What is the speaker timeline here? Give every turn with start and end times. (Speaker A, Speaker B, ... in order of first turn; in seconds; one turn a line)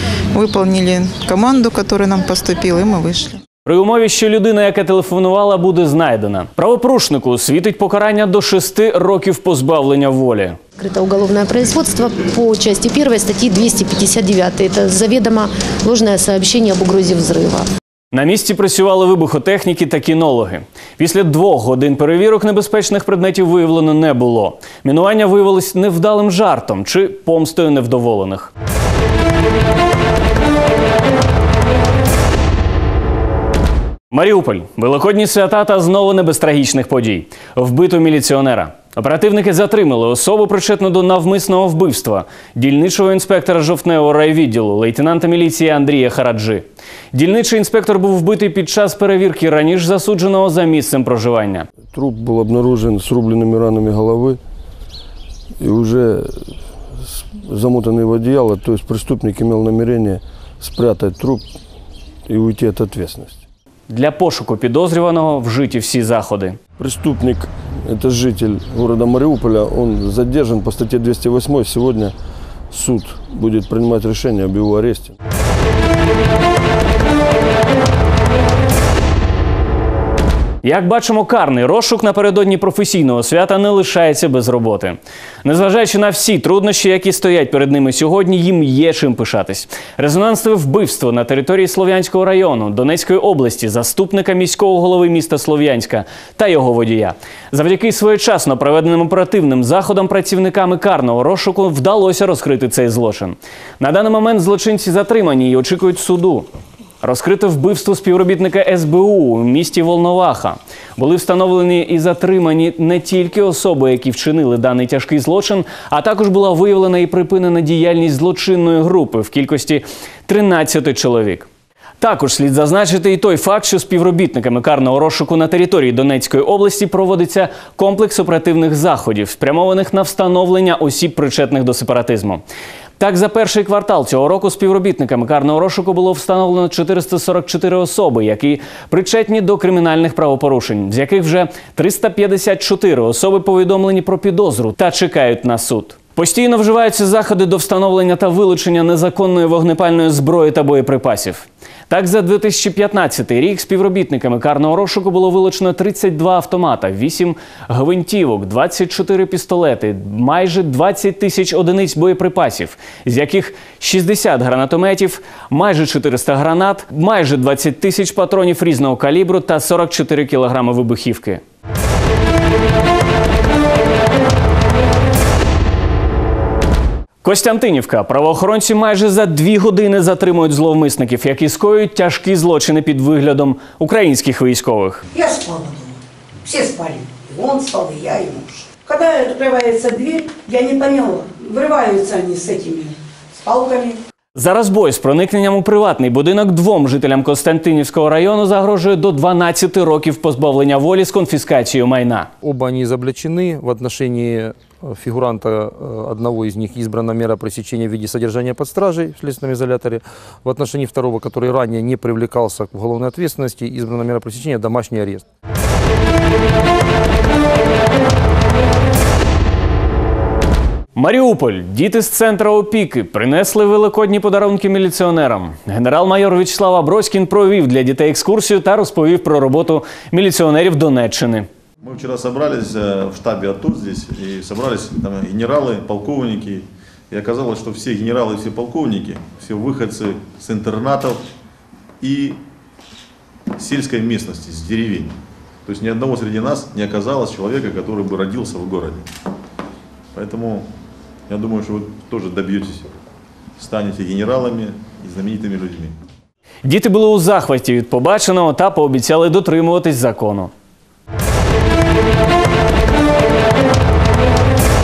Speaker A: 0.3-3.4
Speaker B: 3.6-10.6
Speaker C: 10.8-17.7
Speaker B: 18.1-28.5
Speaker B: 34.1-51.7
Speaker D: 51.9-54.4
Speaker D: 55.6-61.4
Speaker D: 62.3-63.4
Speaker B: 63.9-66.6
Speaker D: 66.8-72.1
Speaker D: 72.7-75.1
Speaker B: 80.6-106.5
Speaker B: 107.0-121.5
Speaker B: 122.0-132.4
Speaker B: 133.0-171.4
Speaker B: 177.2-185.0
Speaker E: 185.1-194.0
Speaker B: 194.4-202.3
Speaker F: 202.4-215.2
Speaker B: 220.9-231.5
Speaker G: 231.8-241.2
Speaker G: 242.0-242.4
Speaker G: 243.6-249.1
Speaker G: 250.1-250.7
Speaker G: 251.3-252.9
Speaker G: 253.6-256.0
Speaker B: 256.6-260.5